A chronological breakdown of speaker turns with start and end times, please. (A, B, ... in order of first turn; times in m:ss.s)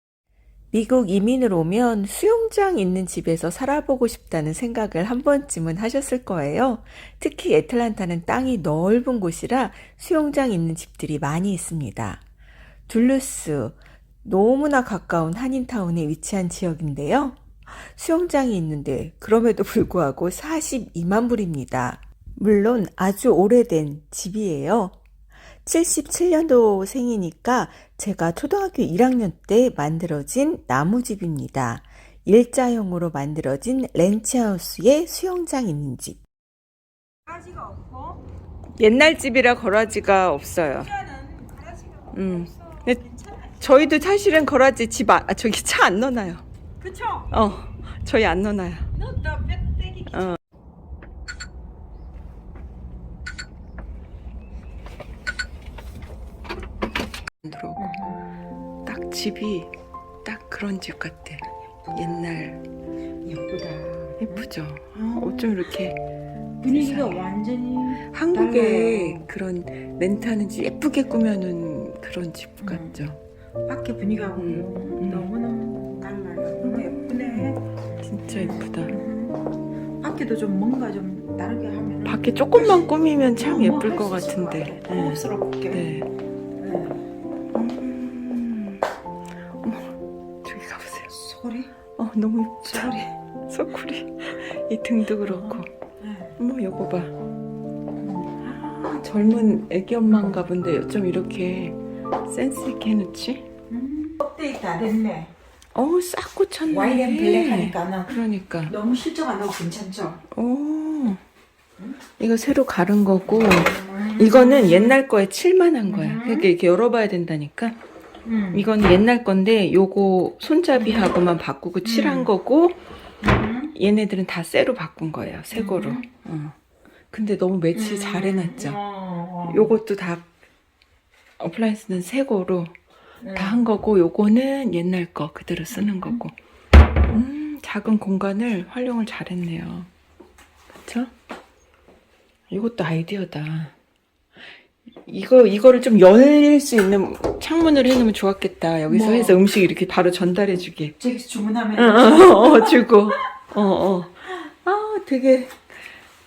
0:00.7-0:12.2 A
0:12.9-0:25.0 A
0:25.6-0:36.2 A
0:37.3-0:38.2 B
0:38.8-0:40.9 A
0:40.7-0:44.3 B
0:42.1-0:43.0 A
0:43.6-0:46.4 A
0:46.8-0:47.3 B
0:47.3-0:48.9 A
0:49.0-0:50.4 B
0:50.1-0:50.4 A
0:57.4-0:57.9 A
0:57.8-0:58.3 B
0:58.8-0:59.7 A
1:00.2-1:02.6 A
1:03.2-1:05.6 B
1:04.2-1:06.0 A
1:06.6-1:09.3 B
1:06.6-1:07.3 A
1:07.9-1:13.2 A
1:12.6-1:13.1 B
1:13.7-1:17.6 B
1:14.4-1:15.3 A
1:16.6-1:19.0 A
1:18.3-1:19.4 B
1:20.0-1:25.9 B
1:22.1-1:26.1 A
1:26.6-1:27.0 B
1:27.5-1:28.8 A
1:29.5-1:31.1 A
1:31.1-1:31.7 B
1:32.0-1:35.7 A
1:32.6-1:33.1 B
1:35.2-1:36.4 B
1:36.4-1:37.1 A
1:38.0-1:38.4 B
1:38.4-1:43.5 A
1:40.1-1:40.4 B
1:43.7-1:45.3 B
1:45.8-1:48.8 A
1:46.7-1:50.2 B
1:50.3-1:51.2 A
1:52.2-1:57.8 A
1:53.4-1:55.0 B
1:55.8-1:56.5 B
1:58.2-1:58.7 B
1:58.5-2:02.8 A
2:00.8-2:01.2 B
2:01.8-2:02.3 B
2:03.2-2:03.7 B
2:03.7-2:06.6 A
2:05.5-2:06.1 B
2:07.1-2:08.8 A
2:07.7-2:09.8 B
2:09.5-2:10.3 A
2:11.4-2:12.8 A
2:13.2-2:13.7 B
2:13.3-2:16.3 A
2:15.7-2:16.2 B
2:17.1-2:19.9 A
2:20.8-2:21.1 A
2:22.5-2:23.7 A
2:25.0-2:31.0 A
2:28.9-2:29.4 B
2:31.0-2:33.0 B
2:31.8-2:35.6 A